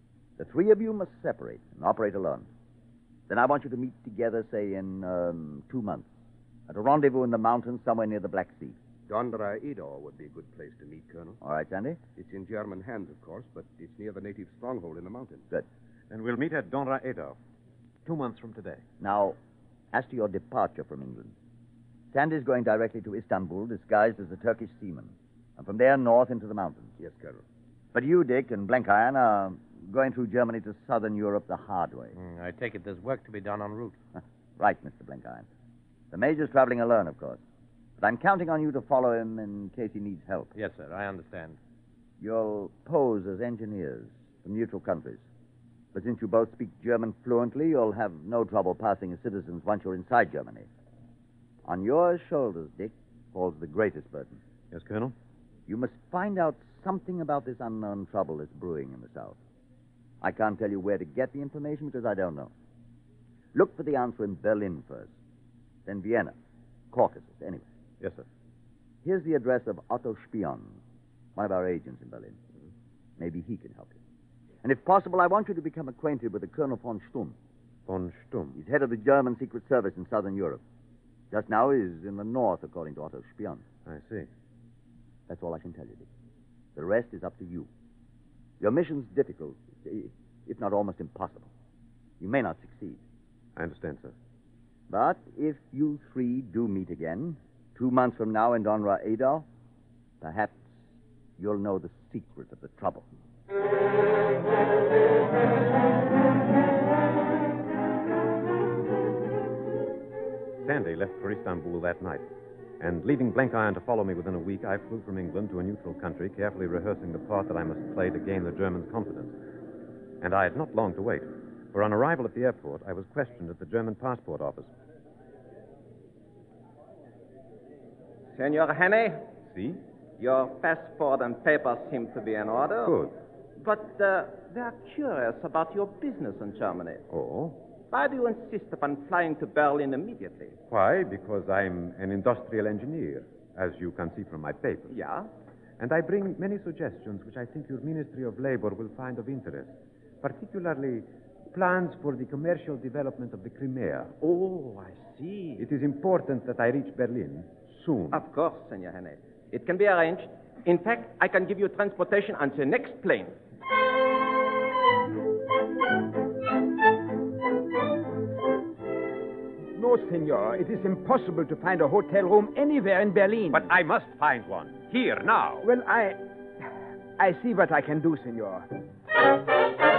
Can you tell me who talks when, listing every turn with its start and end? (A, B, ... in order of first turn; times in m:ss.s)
0:00.4-0:02.5 A
0:03.3-0:06.1 A
0:06.7-0:08.8 A
0:09.1-0:11.4 B
0:11.4-0:12.0 A
0:12.2-0:15.5 B
0:16.1-0:17.4 C
0:18.0-0:18.8 C
0:19.0-0:19.4 A
0:19.9-0:21.3 A
0:22.1-0:26.9 A
0:27.0-0:27.4 B
0:27.9-0:32.2 A
0:32.2-0:34.0 D
0:34.2-0:35.5 A
0:36.1-0:37.4 A
0:38.0-0:40.5 A
0:40.6-0:41.6 D
0:42.2-0:45.2 A
0:45.9-0:50.7 A
0:51.7-0:54.4 A
0:54.7-0:55.2 C
0:55.7-0:59.4 A
1:00.2-1:02.5 A
1:03.5-1:05.1 A
1:05.9-1:06.3 A
1:06.9-1:07.7 A
1:08.0-1:08.3 C
1:09.0-1:10.8 A
1:11.4-1:12.4 A
1:13.2-1:14.0 A
1:14.6-1:17.4 A
1:17.9-1:18.6 C
1:18.6-1:20.6 A
1:21.3-1:23.6 A
1:23.9-1:24.3 C
1:25.3-1:26.1 A
1:26.8-1:27.7 A
1:28.6-1:31.5 A
1:32.2-1:33.0 A
1:33.6-1:34.1 C
1:34.9-1:39.4 A
1:40.2-1:40.7 A
1:41.4-1:43.0 A
1:50.6-1:52.2 C
1:52.8-1:59.4 C
2:00.2-2:04.7 C
2:08.3-2:09.2 E
2:09.5-2:09.8 C
2:10.2-2:17.0 E
2:12.8-2:13.1 C
2:17.1-2:17.6 C
2:17.9-2:20.6 E
2:20.7-2:25.0 C
2:24.9-2:25.3 E
2:25.8-2:34.1 C
2:34.2-2:35.6 E
2:35.6-2:38.2 C
2:38.1-2:43.4 E
2:49.8-2:53.7 F
2:53.5-2:55.6 C
2:55.6-2:56.2 F
2:57.2-2:58.6 F